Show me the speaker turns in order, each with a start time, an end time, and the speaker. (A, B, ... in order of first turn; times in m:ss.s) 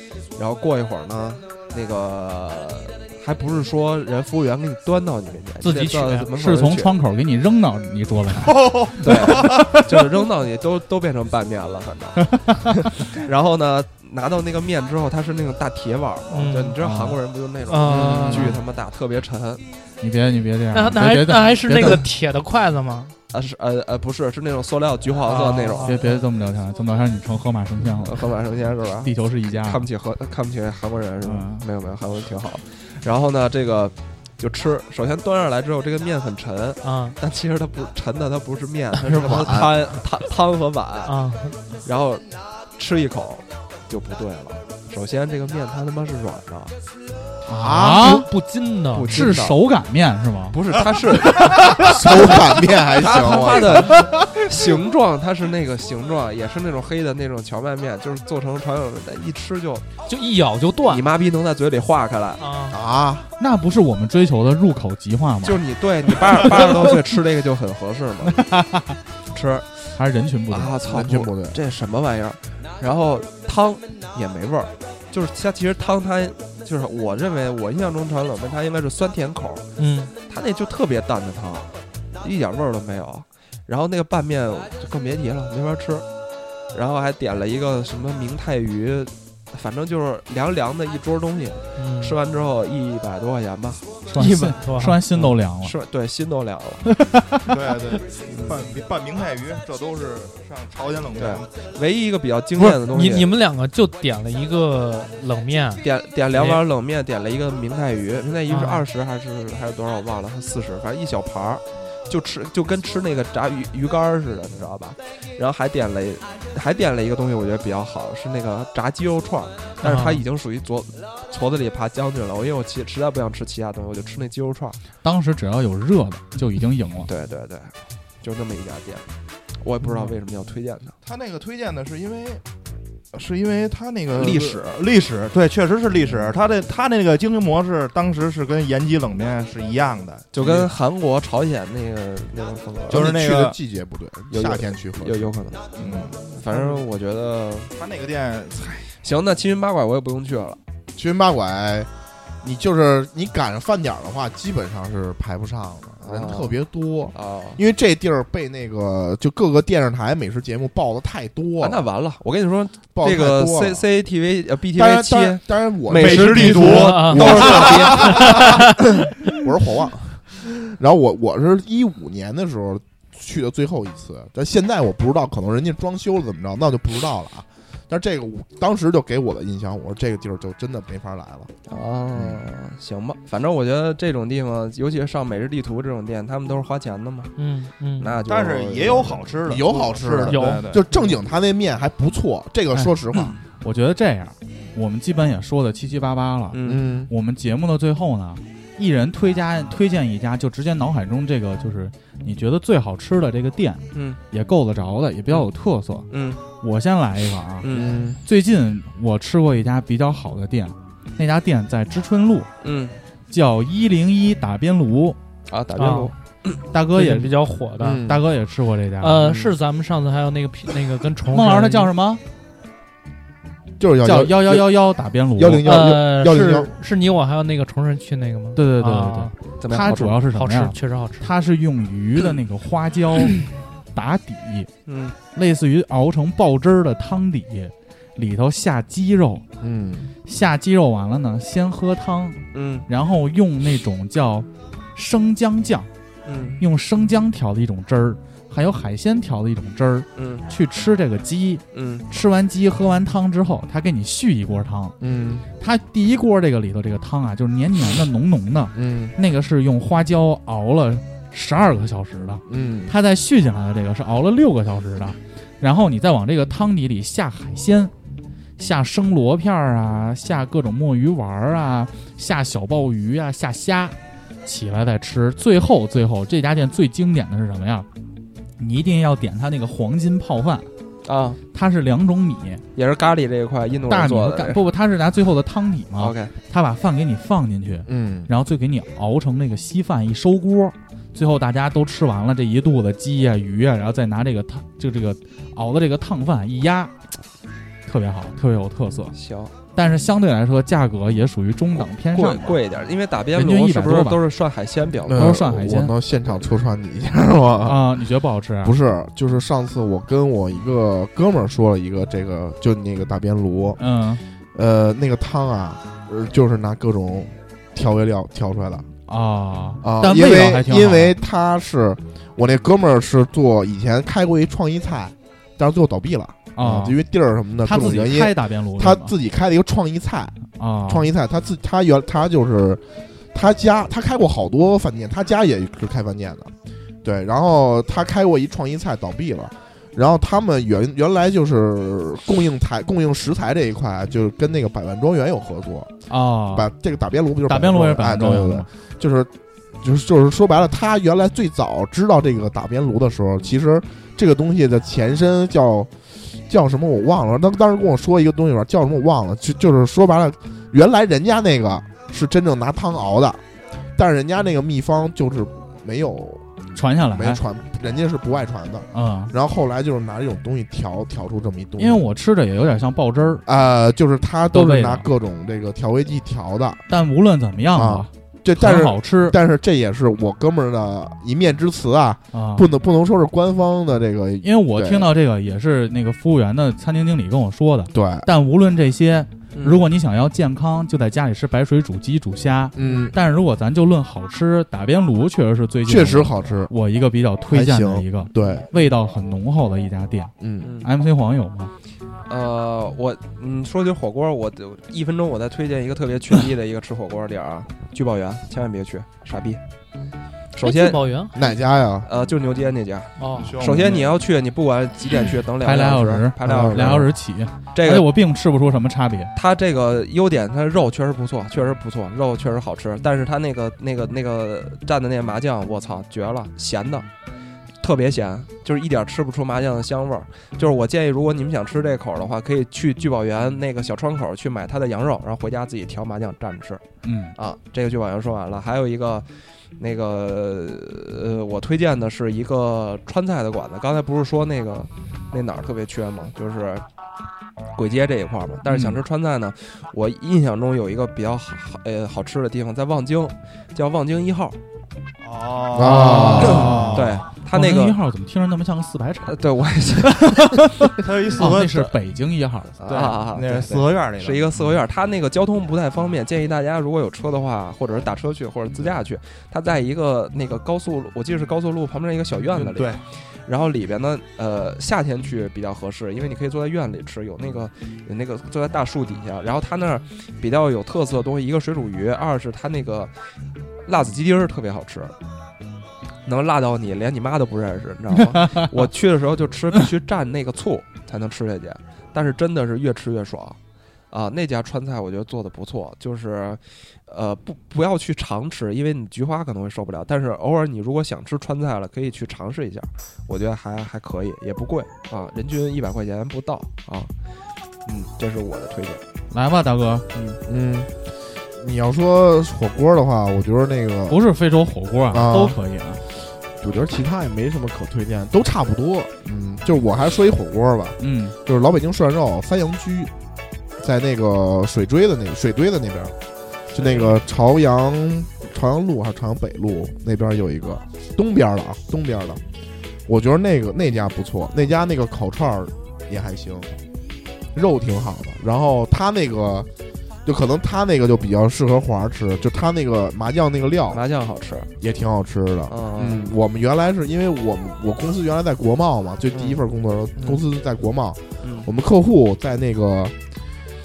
0:00.4-0:06.9 A
0:05.6-0:06.3 B
0:06.3-0:09.4 C
0:08.4-0:09.8 D
0:09.0-0:19.6 A
0:16.3-0:16.8 B
0:16.8-0:17.2 C
0:17.7-0:18.6 B
0:20.0-0:22.0 C
0:20.7-0:23.2 B
0:23.3-0:26.0 A
0:25.3-0:26.2 B
0:25.8-0:28.4 C
0:28.0-0:41.2 A
0:29.0-0:29.9 C
0:31.2-0:31.7 C
0:36.8-0:37.2 B
0:39.2-0:39.7 E
0:41.0-0:41.6 B
0:41.8-0:46.7 A
0:47.5-0:48.3 C
0:47.5-0:48.2 E
0:47.9-0:49.2 B
0:48.9-0:49.6 A
0:49.1-0:50.6 C
0:50.5-0:59.9 A
0:51.4-0:54.2 E
1:00.1-1:01.0 B
1:00.9-1:02.4 A
1:02.4-1:02.8 B
1:02.7-1:03.3 E
1:03.4-1:05.6 C
1:05.4-1:08.5 A
1:08.4-1:08.8 C
1:09.3-1:09.9 A
1:10.0-1:10.8 C
1:10.5-1:19.7 A
1:10.8-1:11.6 E
1:19.8-1:20.1 B
1:20.3-1:21.7 A
1:22.2-1:26.1 A
1:26.7-1:34.5 A
1:31.8-1:32.2 B
1:34.1-1:35.8 C
1:34.2-1:35.3 B
1:35.6-1:36.9 A
1:36.8-1:37.6 C
1:37.5-1:41.5 D
1:38.3-1:38.7 A
1:41.2-1:43.3 A
1:42.6-1:46.6 B
1:45.8-2:04.8 A
1:48.5-1:48.9 B
1:59.8-2:00.2 B
2:05.0-2:07.1 C
2:07.1-2:09.0 A
2:09.6-2:11.0 A
2:11.0-2:12.4 D
2:13.1-2:20.7 D
2:14.2-2:14.7 A
2:20.3-2:23.2 A
2:22.9-2:23.6 D
2:22.9-2:25.4 E
2:24.3-2:27.7 A
2:25.8-2:26.8 D
2:27.8-2:29.0 D
2:29.0-2:30.6 A
2:31.0-2:31.9 E
2:32.4-2:41.8 E
2:36.0-2:36.6 A
2:37.1-2:37.6 A
2:41.6-2:48.4 A
2:43.0-2:43.8 E
2:44.8-2:48.7 E
2:45.9-2:48.4 D
2:46.5-2:47.3 B
2:48.0-2:48.6 B
2:49.3-3:01.5 E
3:01.7-3:07.3 A
3:02.2-3:02.4 E
3:07.4-3:08.1 B
3:08.0-3:09.4 A
3:08.3-3:10.9 D
3:09.4-3:13.4 E
3:10.3-3:10.7 B
3:13.6-3:27.7 C
3:16.5-3:16.8 A
3:16.6-3:17.1 E
3:23.9-3:24.2 A
3:26.1-3:26.4 A
3:27.6-3:28.0 A
3:27.7-3:28.2 E
3:28.2-3:32.5 C
3:32.6-3:33.0 A
3:33.3-3:35.2 C
3:35.5-3:36.6 A
3:35.8-3:36.1 B
3:36.7-3:37.4 C
3:36.9-3:38.0 B
3:37.8-3:38.2 E
3:38.0-3:39.3 C
3:39.0-3:41.9 B
3:41.3-3:42.2 C
3:43.8-3:44.7 E
3:44.0-3:45.7 C
3:45.4-3:46.7 E
3:45.6-3:49.3 B
3:48.6-3:54.7 C
3:49.6-3:50.2 A
3:50.3-3:51.3 B
3:54.9-3:55.2 A
3:55.3-3:59.4 C
3:59.6-4:00.1 E
4:00.2-4:05.9 C
4:02.5-4:02.9 A
4:06.2-4:06.6 A
4:06.6-4:15.0 C
4:10.2-4:10.5 A
4:11.7-4:12.1 A
4:15.0-4:15.5 E
4:15.6-4:27.9 C
4:18.8-4:19.2 E
4:22.5-4:22.9 E
4:28.6-4:37.9 C
4:38.6-4:40.7 C
4:41.0-4:41.4 A
4:41.5-4:42.6 C
4:42.8-4:44.6 A
4:43.9-4:56.9 C
4:46.0-4:46.3 A
4:47.9-4:48.3 E
4:57.9-4:59.2 C
4:59.1-4:59.5 A
4:59.7-5:02.6 C
5:01.8-5:05.4 A
5:03.3-5:04.2 C
5:05.1-5:07.9 E
5:05.1-5:05.9 C
5:07.6-5:08.8 C
5:08.6-5:13.8 E
5:13.8-5:14.2 C
5:14.5-5:18.9 E
5:19.1-5:21.2 C
5:19.8-5:36.5 E
5:26.6-5:27.0 C
5:27.6-5:29.1 C
5:30.6-5:31.1 C
5:37.0-5:45.9 E
5:46.1-5:46.7 C
5:46.5-6:03.4 E
5:47.5-5:48.7 C
6:04.0-6:06.5 E
6:06.7-6:07.4 C
6:07.1-6:12.0 E
6:08.9-6:09.3 C
6:11.8-6:13.4 C
6:13.5-6:16.8 E
6:14.5-6:15.1 C
6:16.9-6:19.4 C
6:17.7-6:25.1 E
6:22.3-6:22.7 C
6:24.4-6:41.7 C
6:27.9-6:28.3 E
6:29.5-6:29.8 A
6:32.7-6:33.2 E
6:35.9-6:36.7 E
6:37.5-6:38.7 E
6:40.4-6:40.7 E
6:40.6-6:40.9 A
6:42.3-6:49.6 A
6:50.5-6:51.5 A
6:50.6-6:51.4 B
6:51.3-6:52.1 E
6:52.0-6:57.1 A
6:53.2-6:53.5 B
6:53.3-6:54.2 D
6:55.6-6:59.3 C
6:56.4-6:57.1 E
6:57.7-6:58.1 A
6:59.3-7:07.1 A
7:07.8-7:16.8 A
7:17.0-7:17.4 C
7:17.4-7:26.9 A
7:27.8-7:34.6 A
7:28.7-7:29.0 C
7:35.2-7:37.2 D
7:35.7-7:36.9 E
7:35.8-7:42.8 C
7:36.4-7:38.0 A
7:39.2-7:40.6 A
7:41.0-7:42.0 D
7:42.8-8:03.1 A
7:42.8-7:44.5 D
7:52.6-7:53.0 D
8:03.9-8:05.1 A
8:06.3-8:13.6 A
8:14.1-8:27.1 A
8:27.8-8:29.0 A
8:29.3-8:30.1 C
8:30.1-8:30.4 A
8:30.5-8:34.2 E
8:34.1-8:36.0 C
8:35.1-8:35.6 E
8:36.6-8:43.1 E
8:41.0-8:41.4 C
8:43.8-8:46.2 E
8:46.7-8:52.4 E
8:53.1-8:56.7 E
8:57.5-8:59.7 E
9:00.2-9:04.0 E
9:03.9-9:04.7 A
9:04.8-9:13.2 E
9:05.7-9:06.3 A
9:09.3-9:09.6 A
9:10.2-9:10.4 A
9:11.4-9:11.7 A